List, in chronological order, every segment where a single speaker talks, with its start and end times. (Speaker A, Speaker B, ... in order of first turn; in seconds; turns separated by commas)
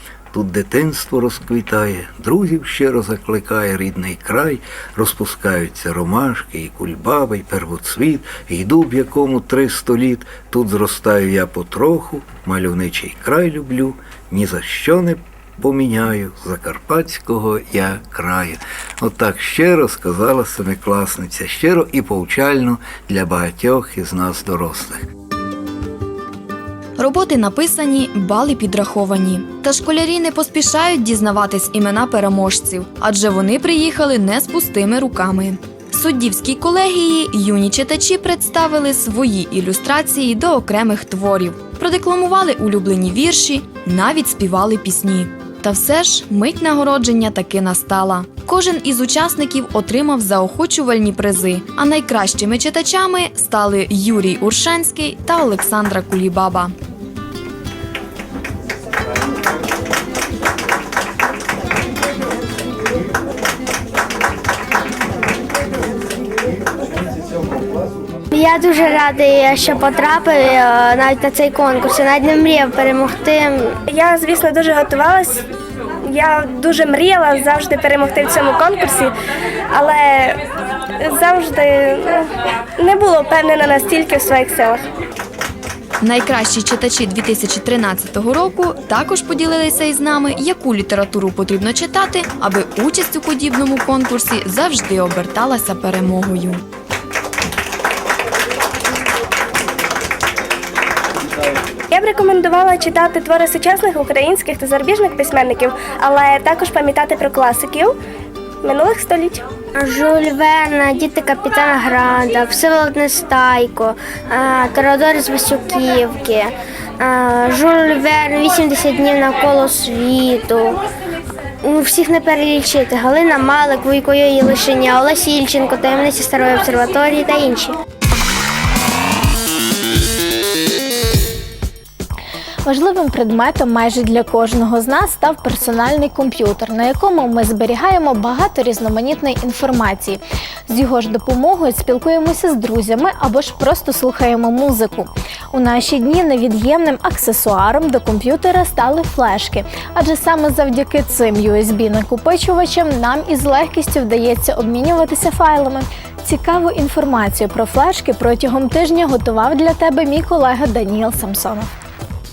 Speaker A: 0.3-25.1, Speaker B: 27.0-56.6, Speaker C: 68.3-73.7, Speaker D: 73.9-75.4, Speaker D: 76.1-79.1, Speaker D: 79.7-80.4, Speaker D: 81.0-82.2, Speaker D: 82.8-84.8, Speaker B: 86.1-86.7, Speaker B: 88.9-89.9, Speaker B: 90.7-91.8, Speaker B: 94.2-94.7, Speaker D: 101.9-107.9, Speaker D: 108.6-109.4, Speaker C: 109.8-116.5, Speaker C: 117.0-120.7, Speaker C: 121.7-125.0, Speaker C: 125.7-127.7, Speaker E: 132.7-161.7